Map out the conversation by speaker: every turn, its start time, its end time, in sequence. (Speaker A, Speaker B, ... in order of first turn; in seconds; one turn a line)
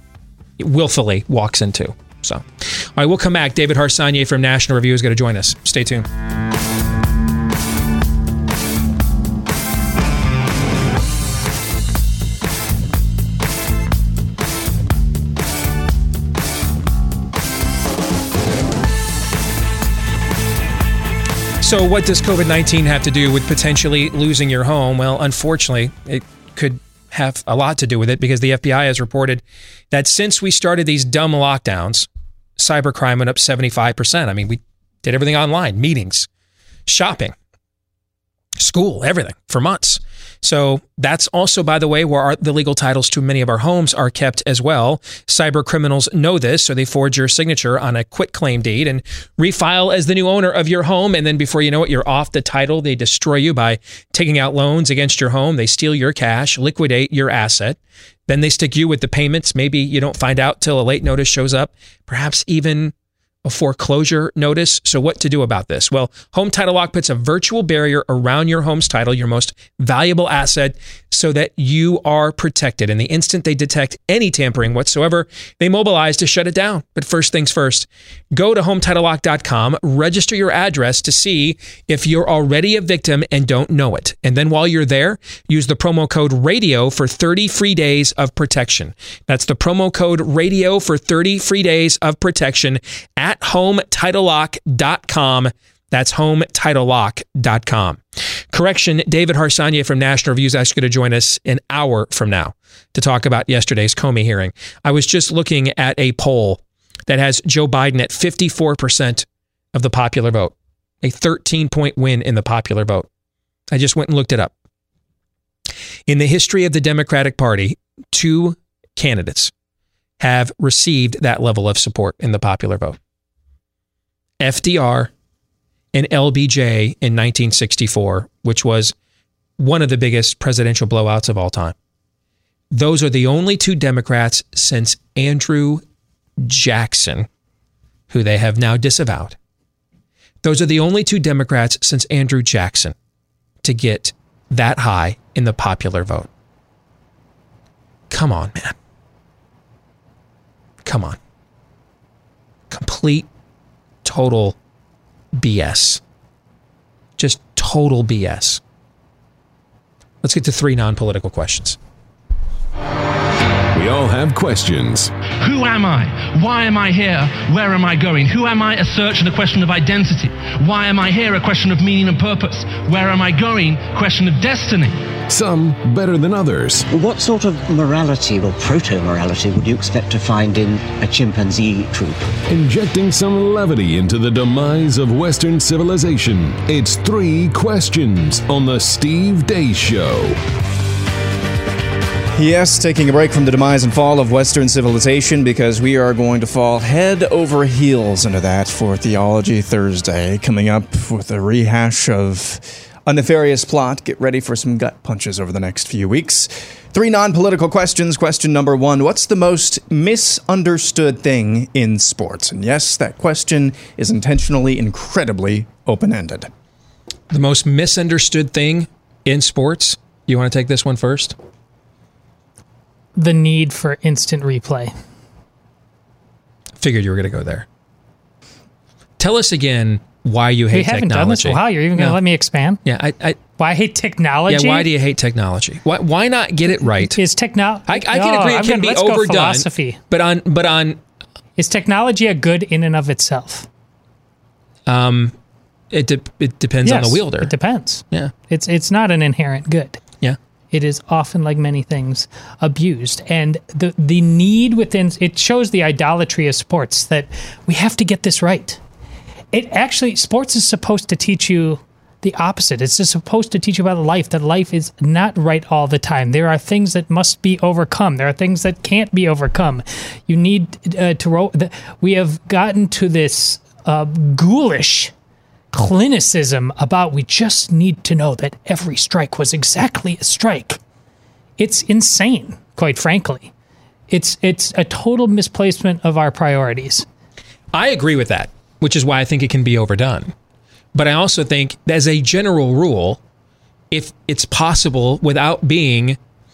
Speaker A: 0.6-6.1
Speaker A: 21.6-36.3
Speaker A: 36.9-37.4
Speaker A: 38.6-98.0
Speaker A: 98.5-113.1
Speaker A: 113.7-114.5
Speaker A: 116.1-119.5
Speaker A: 120.2-123.0
Speaker A: 124.4-125.1
Speaker A: 125.9-128.9
Speaker A: 129.6-131.8
Speaker A: 132.7-135.8
Speaker A: 136.4-137.3
Speaker A: 138.1-139.4
Speaker A: 140.4-143.0
Speaker A: 143.6-146.3
Speaker A: 148.1-148.8
Speaker A: 150.8-151.2
Speaker A: 152.7-153.3
Speaker A: 154.0-154.6
Speaker A: 155.3-156.0
Speaker A: 157.2-158.6
Speaker A: 160.2-161.8
Speaker B: 163.7-165.1
Speaker C: 165.4-175.0
Speaker B: 175.3-176.9
Speaker D: 176.9-182.3
Speaker B: 182.5-190.4
Speaker E: 192.3-216.5
Speaker A: 217.3-221.4
Speaker F: 223.2-224.9
Speaker A: 226.8-227.7
Speaker A: 229.2-232.2
Speaker F: 230.7-232.8
Speaker A: 232.8-233.4
Speaker F: 233.6-234.9
Speaker A: 234.5-237.2
Speaker F: 237.0-240.0
Speaker A: 237.9-241.0
Speaker F: 241.6-243.7
Speaker A: 244.9-245.3
Speaker A: 245.9-247.5
Speaker F: 246.8-250.0
Speaker F: 250.7-258.8
Speaker F: 259.5-275.1
Speaker F: 275.7-280.8
Speaker F: 281.6-283.5
Speaker F: 284.1-287.1
Speaker A: 287.7-290.3
Speaker A: 290.9-293.2
Speaker A: 293.9-296.2